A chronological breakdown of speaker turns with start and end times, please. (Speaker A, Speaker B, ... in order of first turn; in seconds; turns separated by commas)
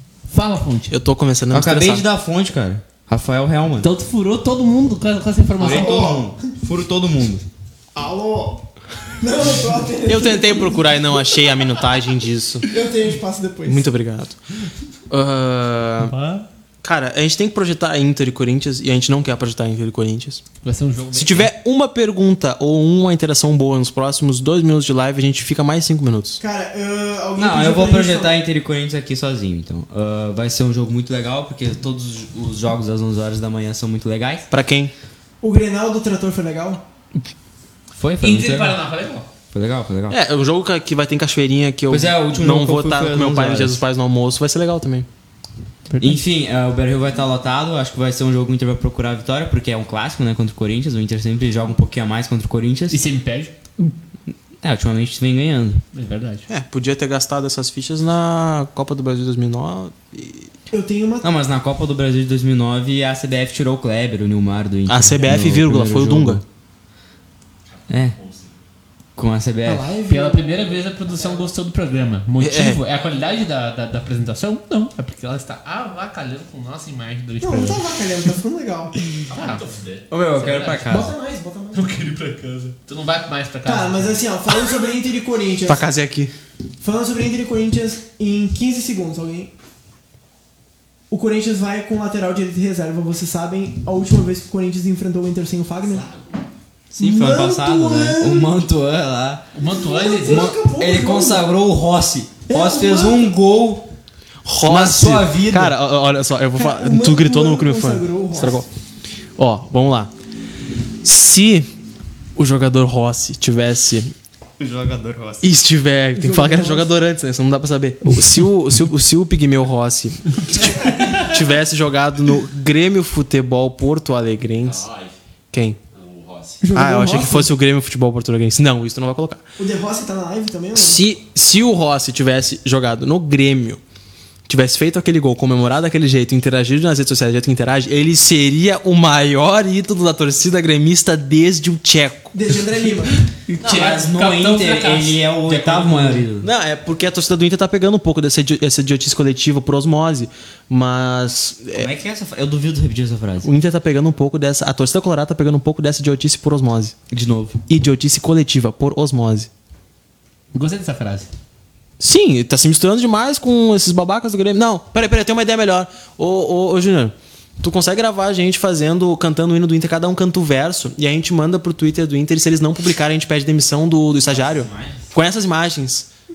Speaker A: 0.3-0.9, Speaker B: 0.9-2.0, Speaker C: 1.5-3.9, Speaker A: 3.8-6.1, Speaker C: 5.6-7.4, Speaker D: 5.7-6.3, Speaker D: 8.0-8.6, Speaker D: 9.2-11.2, Speaker B: 10.1-12.7, Speaker D: 12.7-13.9, Speaker B: 13.7-14.4, Speaker B: 15.1-16.1, Speaker A: 16.0-16.5, Speaker B: 16.8-20.4, Speaker A: 20.6-21.5, Speaker B: 21.1-26.4, Speaker D: 26.4-28.4, Speaker C: 27.4-34.5, Speaker B: 34.5-34.9, Speaker D: 35.4-36.8, Speaker C: 37.9-38.8, Speaker A: 38.2-39.3, Speaker C: 39.5-40.2, Speaker B: 40.1-45.1, Speaker C: 41.9-43.8, Speaker A: 45.9-46.2, Speaker C: 46.0-53.0, Speaker A: 52.9-53.5, Speaker C: 54.6-55.8, Speaker A: 55.9-56.5, Speaker B: 56.5-60.5, Speaker D: 60.7-61.3, Speaker C: 61.2-66.4, Speaker B: 64.9-66.4, Speaker E: 67.7-68.6, Speaker C: 67.9-68.2, Speaker C: 69.2-69.9, Speaker D: 69.7-70.9, Speaker A: 70.1-77.9, Speaker B: 72.4-72.8, Speaker D: 77.4-78.9, Speaker E: 79.3-80.1, Speaker A: 79.3-79.7, Speaker C: 80.1-81.1, Speaker A: 80.3-81.0, Speaker D: 80.9-81.9, Speaker A: 81.7-84.3, Speaker D: 83.7-85.9, Speaker B: 85.7-86.3, Speaker D: 86.8-89.5, Speaker D: 91.1-96.1, Speaker E: 95.8-96.4, Speaker C: 96.9-99.5, Speaker D: 97.0-98.5, Speaker A: 99.5-100.5, Speaker D: 99.6-101.4, Speaker C: 100.2-103.9, Speaker D: 102.5-103.3, Speaker B: 104.5-108.7, Speaker C: 104.6-105.8, Speaker D: 106.5-108.7, Speaker B: 109.4-110.1, Speaker B: 111.0-111.7, Speaker B: 112.4-114.1, Speaker C: 114.6-115.5, Speaker B: 115.4-124.9, Speaker D: 116.2-116.9, Speaker E: 124.6-125.1, Speaker B: 125.5-125.8, Speaker E: 125.9-126.6, Speaker D: 126.6-127.5, Speaker B: 126.7-129.4, Speaker D: 129.6-131.0, Speaker B: 130.8-133.8, Speaker B: 134.5-142.3, Speaker D: 142.3-143.2, Speaker A: 143.5-146.2, Speaker C: 143.6-146.5, Speaker B: 146.4-151.9, Speaker C: 151.7-153.5, Speaker B: 153.4-156.9, Speaker C: 157.1-157.6, Speaker B: 157.7-159.5, Speaker A: 160.5-161.3, Speaker B: 162.0-176.1, Speaker E: 174.3-175.1